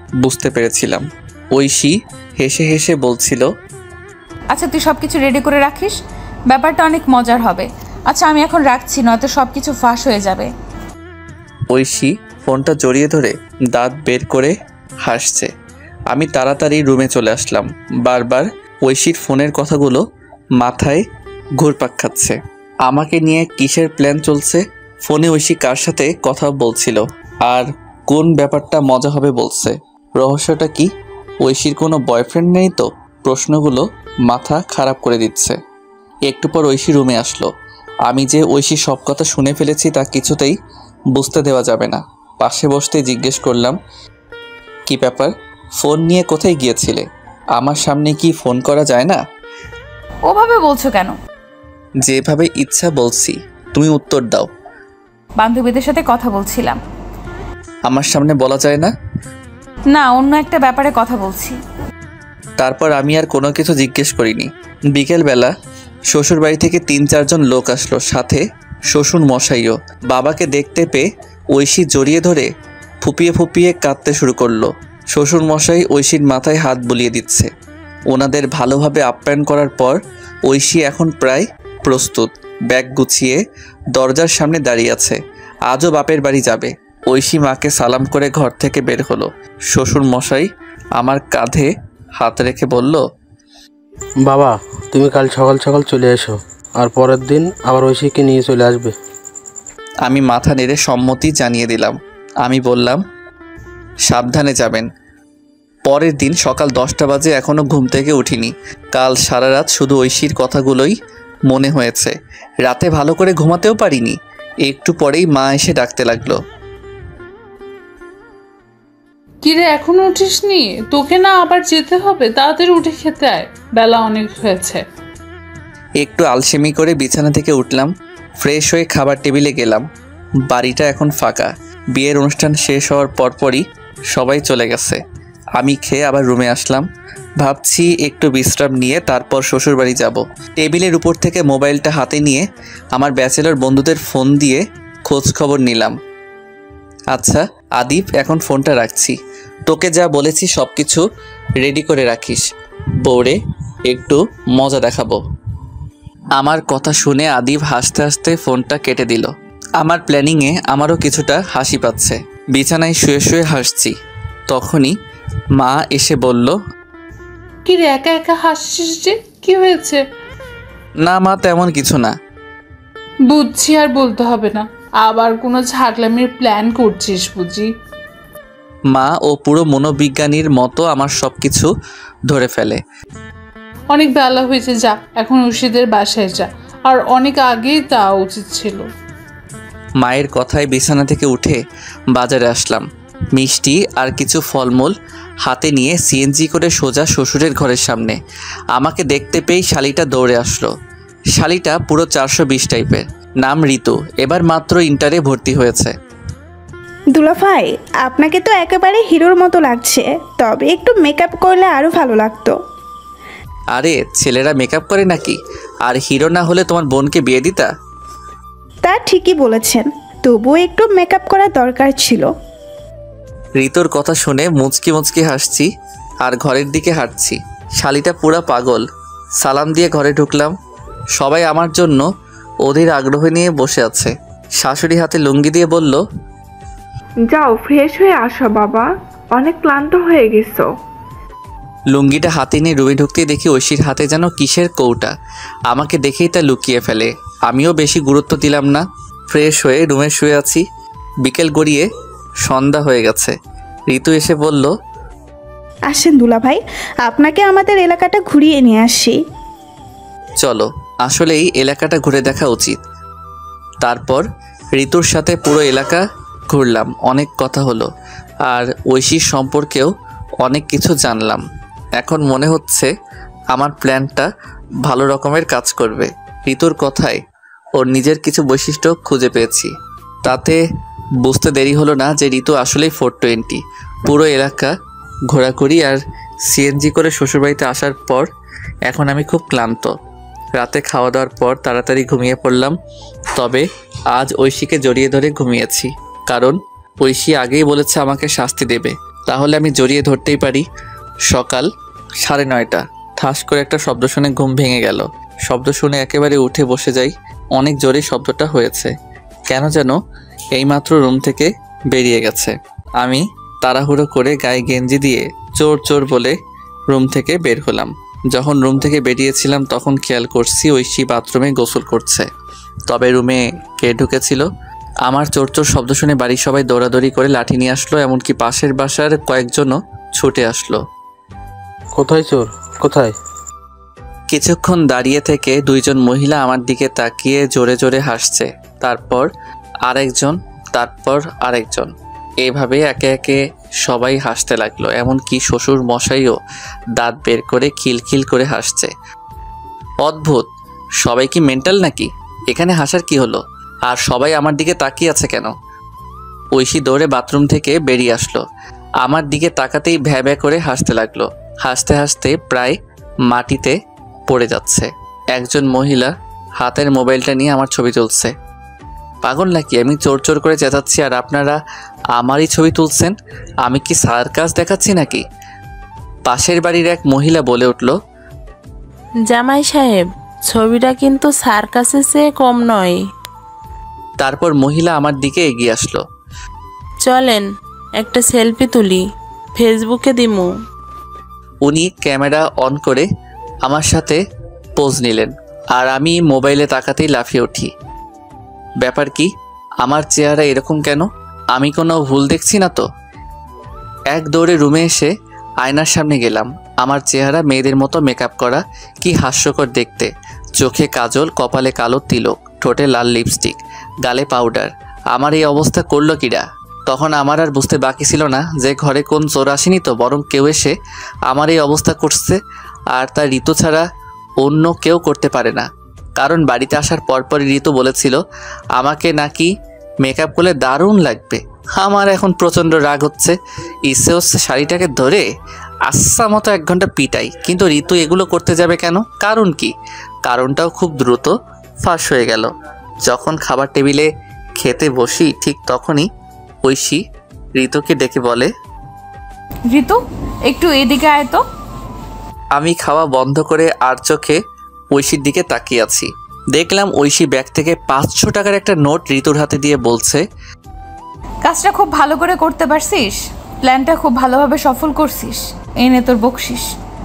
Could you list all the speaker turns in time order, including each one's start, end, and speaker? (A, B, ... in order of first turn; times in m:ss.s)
0:00.2-0:03.4 A
0:04.5-0:06.0 B
0:06.5-0:10.5 B
0:11.7-0:15.5 A
0:16.1-0:20.0 A
0:20.6-0:21.0 A
0:21.6-0:30.9 A
0:31.4-0:35.6 A
0:36.3-0:37.5 A
0:38.0-0:40.5 A
0:41.1-0:43.8 A
0:44.9-0:47.0 A
0:47.6-0:49.2 A
0:50.3-0:51.2 B
0:52.0-0:54.5 A
0:55.4-0:56.8 B
0:57.9-0:58.9 A
0:59.9-1:01.6 B
1:02.6-1:05.5 A
1:06.1-1:12.5 A
1:13.0-1:17.5 A
1:18.1-1:23.4 A
1:23.9-1:33.0 A
1:34.2-1:38.9 C
1:40.0-1:43.0 A
1:44.1-1:44.9 A
1:45.9-1:50.9 A
1:51.5-1:56.4 A
1:59.4-2:04.8 D
2:06.0-2:07.9 A
2:08.4-2:09.8 A
2:10.5-2:15.0 A
2:15.6-2:16.8 A
2:17.4-2:26.0 A
2:27.1-2:29.2 A
2:29.7-2:31.0 A
2:31.6-2:32.5 A
2:33.0-2:35.2 A
2:36.4-2:43.9 A
2:44.5-2:44.9 A
2:45.6-2:46.6 A
2:47.6-2:50.0 D
2:51.0-2:52.2 A
2:53.3-2:57.7 D
2:58.9-3:01.7 A
3:02.3-3:02.8 A
3:03.9-3:08.8 D
3:10.0-3:11.6 A
3:12.1-3:18.2 A
3:18.7-3:20.7 A
3:21.3-3:25.9 A
3:27.1-3:32.6 E
3:33.7-3:37.7 A
3:38.8-3:42.3 E
3:43.6-3:45.7 A
3:46.2-3:48.8 A
3:49.4-3:50.5 A
3:51.2-3:52.0 A
3:52.6-3:56.0 A
3:57.3-4:00.7 F
4:01.9-4:05.1 A
4:05.7-4:10.6 A
4:11.2-4:11.8 A
4:12.4-4:13.3 A
4:13.9-4:14.7 A
4:15.9-4:19.2 E
4:20.4-4:22.8 A
4:23.8-4:27.9 A
4:28.4-4:29.9 A
4:30.4-4:31.4 A
4:32.0-4:32.9 A
4:33.5-4:34.3 A
4:34.8-4:37.2 A
4:37.8-4:39.7 A
4:40.2-4:40.6 A
4:41.2-4:44.7 A
4:45.3-4:48.3 A
4:48.9-4:49.9 A
4:50.6-4:52.7 A
4:53.3-5:00.6 A
5:01.3-5:01.7 A
5:02.2-5:08.9 A
5:09.5-5:10.0 A
5:10.5-5:16.3 A
5:16.9-5:22.3 A
5:22.9-5:24.4 A
5:25.0-5:30.8 A
5:32.0-5:33.1 C
5:34.3-5:39.3 A
5:39.8-5:46.4 A
5:47.0-5:48.9 A
5:50.0-5:50.5 A
5:51.0-5:55.5 A
5:56.5-5:58.4 A
5:59.0-6:02.7 A
6:03.3-6:03.8 A
6:04.3-6:08.3 A
6:09.2-6:11.6 A
6:12.2-6:15.2 A
6:16.3-6:17.9 A
6:19.3-6:23.0 G
6:24.2-6:26.0 A
6:27.0-6:27.4 G
6:28.0-6:29.0 G
6:29.6-6:30.5 G
6:31.6-6:33.0 A
6:33.6-6:34.2 A
6:34.8-6:37.7 A
6:38.8-6:39.3 A
6:39.8-6:42.8 A
6:44.1-7:00.7 A
7:01.3-7:02.4 A
7:02.9-7:03.8 A
7:04.4-7:05.7 A
7:06.2-7:08.2 A
7:08.8-7:09.5 A
7:10.0-7:15.3 A
7:15.9-7:19.7 A
7:20.2-7:22.5 A
7:23.0-7:26.1 A
7:26.6-7:27.0 A
7:27.6-7:28.5 A
7:29.7-7:31.4 B
7:32.6-7:34.4 A
7:34.9-7:40.2 A
7:41.4-7:46.6 B